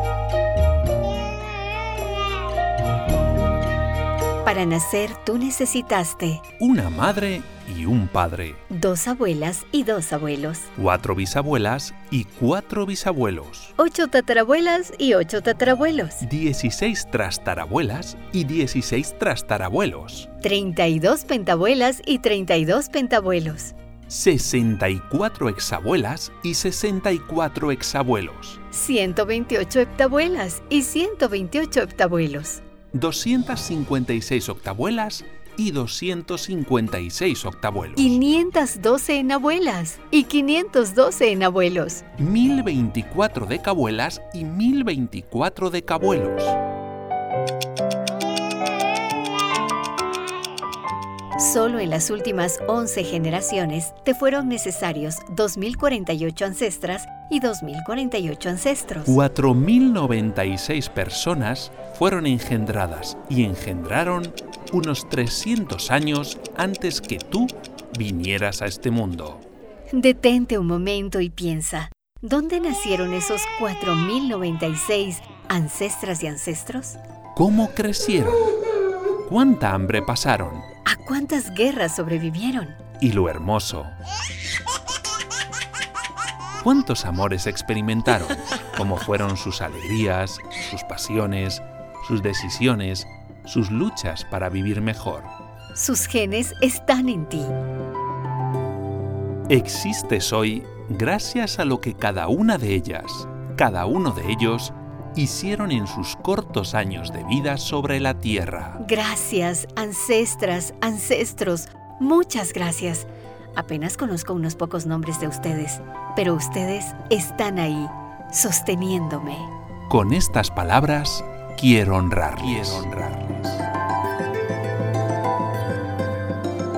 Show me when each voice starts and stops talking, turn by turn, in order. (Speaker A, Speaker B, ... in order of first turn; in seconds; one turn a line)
Speaker A: 4.4-6.4
Speaker B: 6.6-8.6
Speaker A: 8.7-10.7
Speaker B: 10.8-13.7
Speaker A: 13.8-16.2
Speaker B: 16.2-20.3
Speaker A: 20.4-23.7
Speaker B: 24.1-28.6
Speaker A: 28.7-32.6
Speaker B: 32.9-38.2
Speaker A: 38.0-42.0
Speaker B: 42.2-46.6
Speaker A: 51.4-59.2
Speaker B: 59.1-69.4
Speaker A: 69.9-77.0
Speaker B: 77.3-78.5
Speaker B: 79.2-80.7
Speaker A: 80.8-82.8
Speaker B: 83.0-84.0
Speaker B: 86.6-95.3
Speaker A: 95.7-97.5
Speaker B: 99.5-108.8
Speaker A: 108.8-119.5
Speaker B: 119.9-123.6